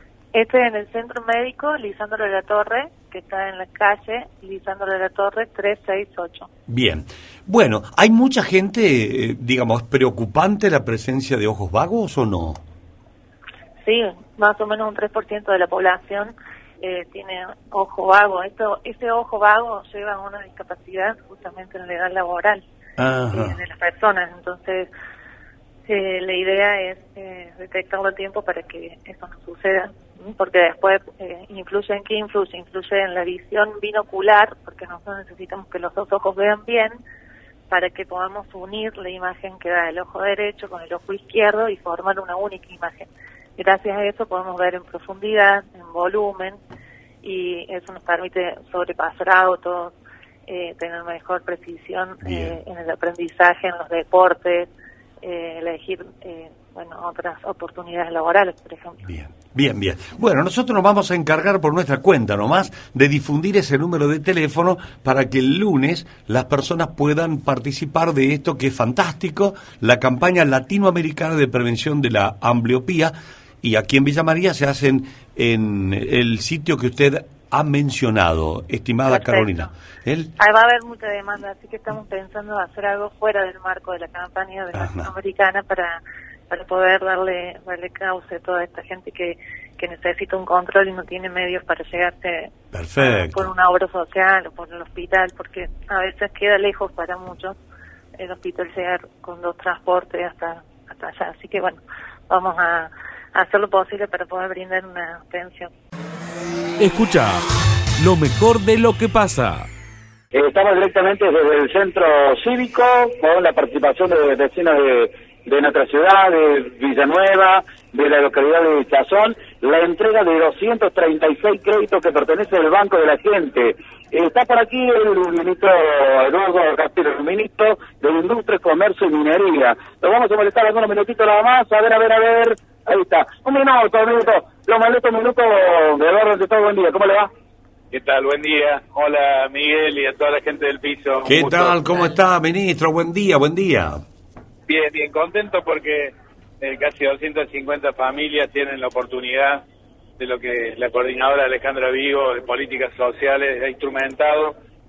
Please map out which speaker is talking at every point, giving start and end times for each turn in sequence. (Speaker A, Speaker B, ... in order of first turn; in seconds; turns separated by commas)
Speaker A: 0.3-6.5, Speaker B: 6.7-12.6, Speaker A: 13.8-22.6, Speaker B: 23.0-23.6, Speaker A: 23.3-24.9, Speaker A: 25.9-37.0, Speaker A: 37.7-46.6, Speaker A: 47.2-49.9, Speaker A: 50.5-54.7, Speaker B: 52.2-52.6, Speaker A: 55.2-59.0, Speaker B: 59.0-80.3, Speaker A: 79.1-79.7, Speaker A: 80.4-97.6, Speaker B: 84.7-85.1, Speaker B: 92.7-93.5, Speaker A: 98.2-105.7, Speaker C: 106.8-107.4, Speaker C: 108.0-109.7, Speaker D: 110.3-137.3, Speaker E: 137.9-141.8, Speaker B: 141.2-144.0, Speaker E: 144.7-149.6, Speaker E: 150.2-154.6